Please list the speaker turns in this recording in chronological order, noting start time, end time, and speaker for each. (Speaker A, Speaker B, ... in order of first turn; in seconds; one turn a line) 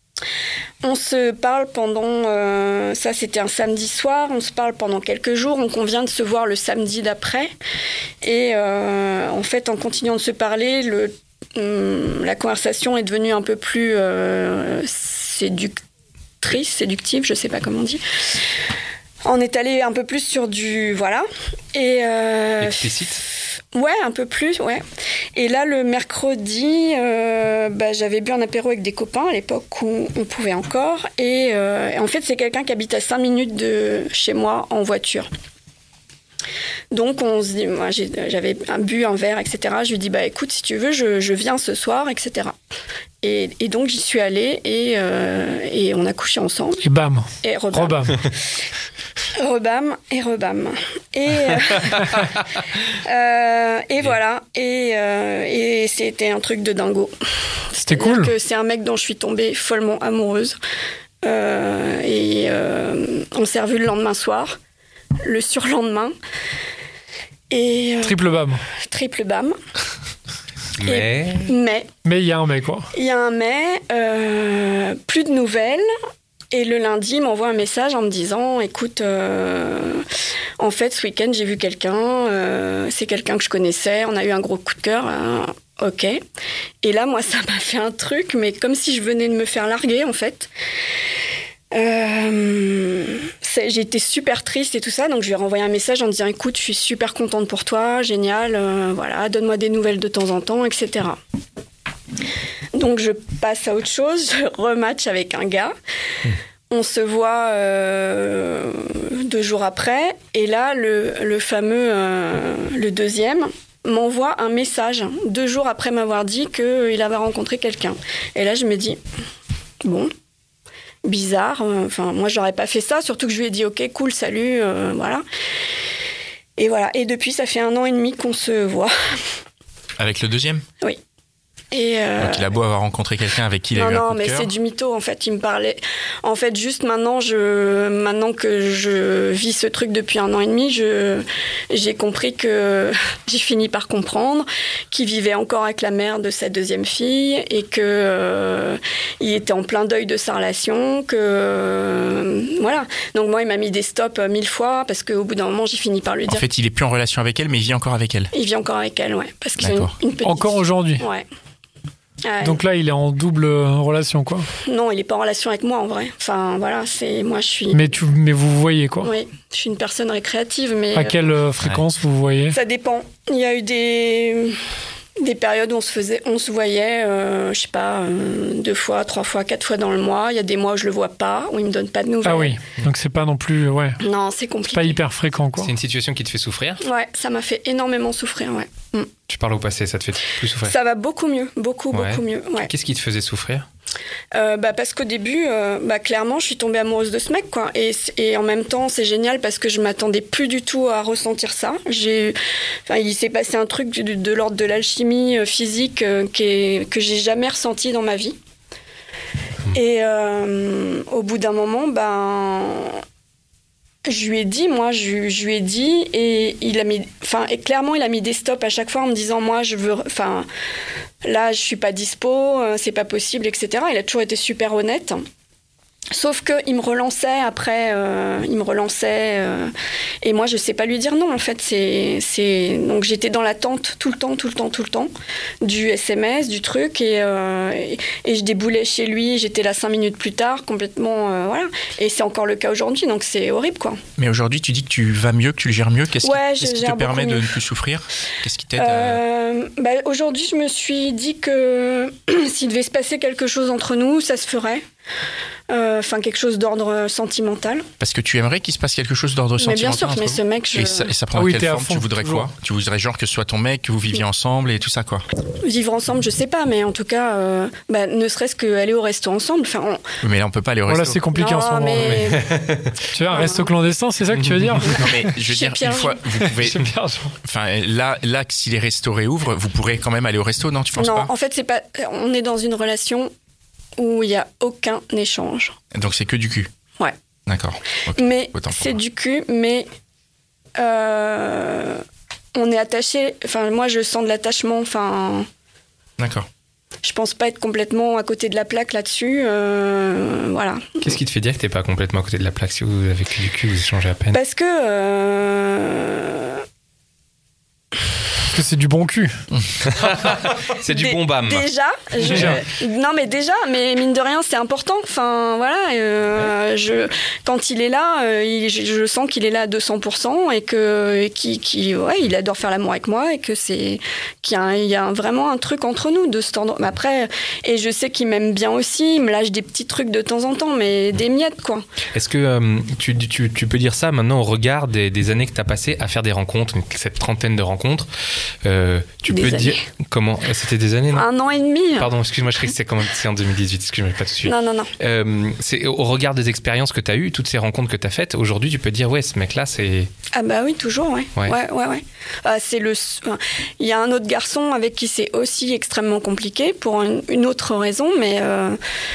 Speaker A: 0.8-7.5
Speaker A: 8.2-15.8
Speaker A: 16.4-18.0
Speaker A: 19.2-22.9
Speaker B: 22.6-23.2
Speaker A: 23.7-24.8
Speaker A: 25.4-35.3
Speaker A: 36.9-42.5
Speaker A: 43.2-46.9
Speaker C: 46.8-48.2
Speaker A: 47.4-48.3
Speaker A: 49.4-52.3
Speaker A: 52.9-57.2
Speaker A: 57.7-60.6
Speaker C: 57.8-58.3
Speaker A: 61.2-64.6
Speaker A: 65.2-66.2
Speaker A: 67.5-69.6
Speaker C: 68.0-68.6
Speaker B: 70.8-71.5
Speaker A: 70.8-71.9
Speaker C: 72.0-72.9
Speaker A: 72.9-75.9
Speaker A: 76.5-80.1
Speaker A: 80.6-86.2
Speaker A: 86.8-90.5
Speaker A: 91.7-101.2
Speaker A: 102.7-105.7
Speaker A: 106.7-119.0
Speaker A: 119.8-120.1
Speaker A: 121.0-125.2
Speaker A: 126.6-128.9
Speaker D: 130.0-130.7
Speaker A: 131.7-132.5
Speaker D: 132.2-134.5
Speaker A: 133.7-156.5
Speaker D: 156.3-158.3
Speaker A: 158.3-161.3
Speaker D: 159.6-159.9
Speaker C: 160.2-161.0
Speaker A: 162.2-162.6
Speaker C: 162.4-164.5
Speaker A: 164.6-167.9
Speaker C: 167.7-169.1
Speaker A: 169.0-171.2
Speaker C: 170.9-172.6
Speaker A: 172.5-174.6
Speaker A: 175.2-182.6
Speaker C: 182.2-184.0
Speaker A: 184.0-185.0
Speaker C: 184.7-185.7
Speaker B: 185.6-186.8
Speaker A: 186.8-189.1
Speaker B: 189.3-190.8
Speaker A: 190.6-192.7
Speaker B: 191.9-193.7
Speaker A: 194.3-208.4
Speaker A: 209.7-213.0
Speaker A: 214.1-220.5
Speaker A: 221.2-225.2
Speaker A: 226.1-229.7
Speaker A: 230.2-235.1
Speaker A: 235.6-244.0
Speaker D: 244.2-249.2
Speaker A: 246.2-247.6
Speaker A: 248.8-254.8
Speaker A: 255.7-257.9
Speaker D: 258.0-265.2
Speaker A: 259.6-261.1
Speaker C: 261.3-262.5
Speaker A: 265.6-270.0
Speaker D: 270.2-271.2
Speaker C: 270.9-272.3
Speaker A: 271.3-272.6
Speaker B: 272.0-273.0
Speaker C: 273.1-275.3
Speaker A: 273.3-273.7
Speaker B: 274.4-274.9
Speaker D: 274.8-281.3
Speaker A: 275.4-276.2
Speaker C: 276.4-277.3
Speaker A: 281.0-283.3
Speaker A: 284.0-285.8
Speaker D: 285.9-286.7
Speaker D: 287.5-289.0
Speaker A: 288.1-289.9
Speaker A: 290.8-292.0
Speaker A: 292.6-295.5
Speaker D: 296.2-296.5
Speaker A: 297.0-301.1
Speaker B: 301.0-304.4
Speaker A: 304.3-306.6
Speaker C: 308.5-309.4
Speaker B: 309.8-311.7
Speaker A: 310.8-331.9
Speaker B: 312.2-312.5
Speaker C: 312.2-312.6
Speaker B: 332.1-350.1
Speaker A: 339.3-339.9
Speaker A: 341.1-342.1
Speaker A: 344.4-344.9
Speaker A: 350.3-358.8